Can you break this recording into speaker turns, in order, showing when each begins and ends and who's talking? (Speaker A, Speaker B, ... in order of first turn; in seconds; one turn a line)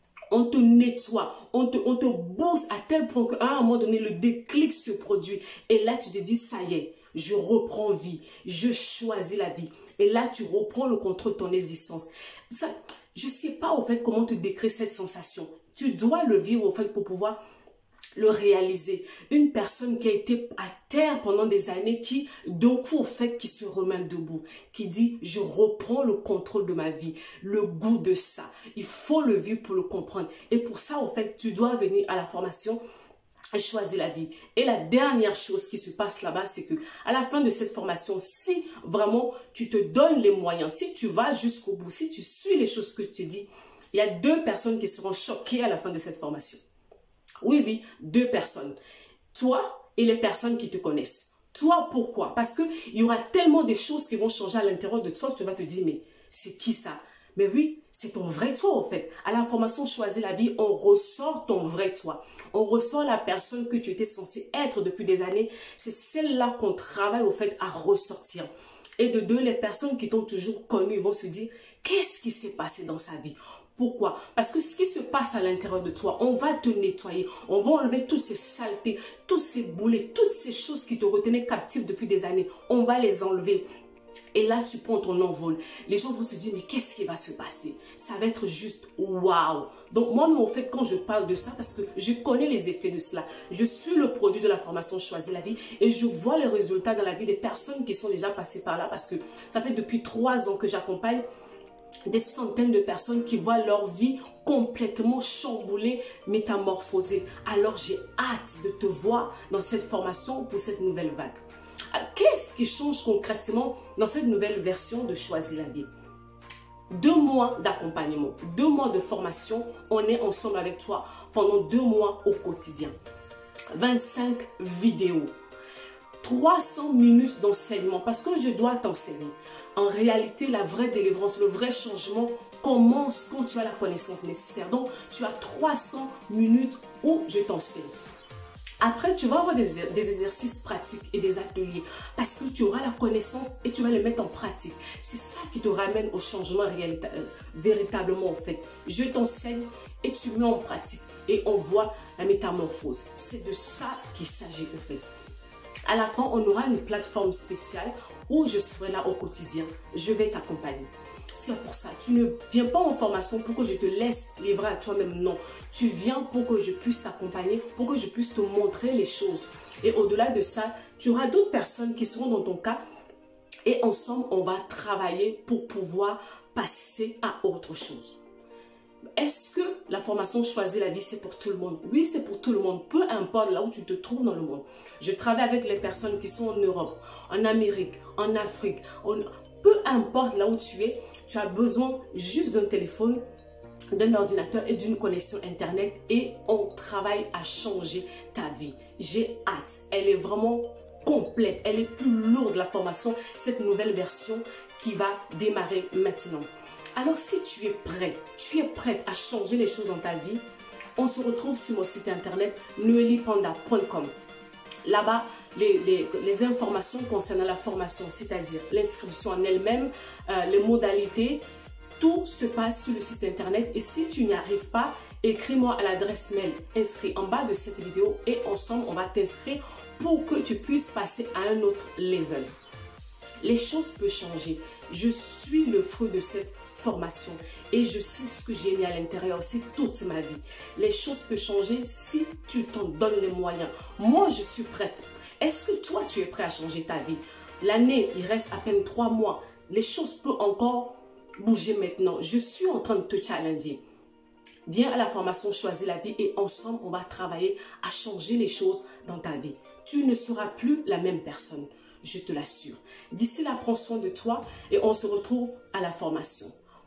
Speaker A: 0.3-17.4
Speaker A: 18.2-32.8
Speaker A: 33.5-46.6
Speaker A: 47.4-48.8
Speaker A: 49.3-83.7
Speaker A: 84.3-101.2
Speaker A: 102.1-115.9
Speaker A: 116.9-122.9
Speaker A: 123.7-125.3
Speaker A: 126.2-137.9
Speaker A: 138.8-155.0
Speaker A: 155.9-172.8
Speaker A: 173.7-178.2
Speaker A: 179.2-193.2
Speaker A: 193.9-210.4
Speaker A: 211.0-214.1
Speaker A: 214.8-221.4
Speaker A: 222.0-232.5
Speaker A: 233.4-253.8
Speaker A: 254.7-266.6